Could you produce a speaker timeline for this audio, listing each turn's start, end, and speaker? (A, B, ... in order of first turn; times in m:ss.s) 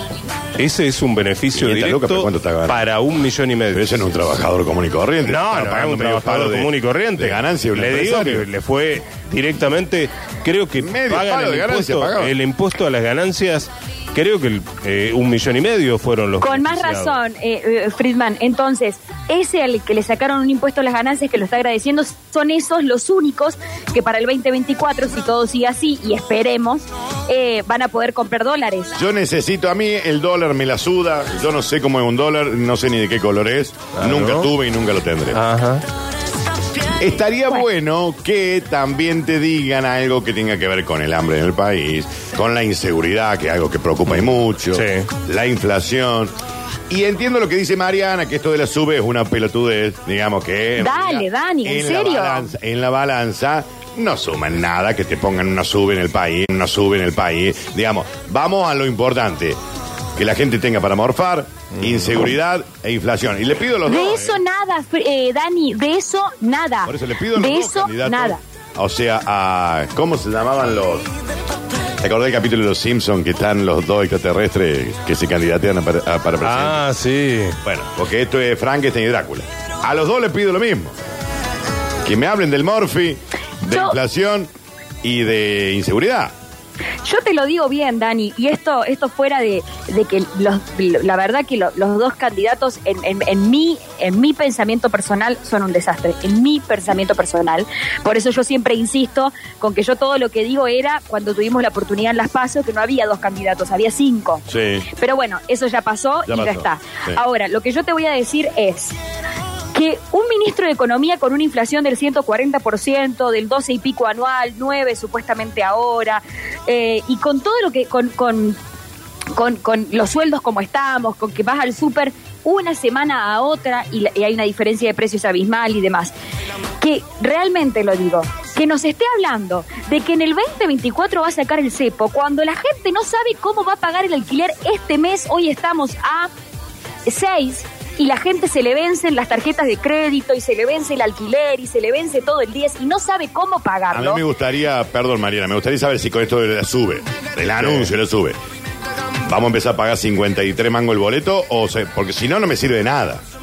0:00.6-0:04.2 A
0:01.6-0:02.8 B
0:03.7-0:08.4 B
0:05.2-0:17.2 A
0:10.8-0:12.3 B
0:16.4-0:28.9 C
0:29.0-0:35.4 B
0:34.0-0:34.5 A
0:35.3-0:35.8 A
0:37.0-0:46.3 B
0:44.7-0:45.1 A
0:46.9-0:59.6 B
0:50.8-0:52.5 C
1:00.2-1:04.4 B
1:03.9-1:08.4 C
1:06.9-1:11.1 B
1:12.0-1:16.8 B
1:16.4-1:17.6 A
1:17.6-1:21.0 B
1:22.0-1:24.5 B
1:23.7-1:24.0 C
1:25.0-1:26.3 B
1:27.0-1:44.4 C
1:44.5-1:44.9 B
1:45.0-1:49.0 C
1:46.3-1:47.2 B
1:49.7-1:58.6 C
1:59.3-2:06.1 C
2:06.8-2:16.3 C
2:17.1-2:24.2 C
2:23.9-2:28.4 B
2:27.6-2:27.9 A
2:29.3-2:33.2 B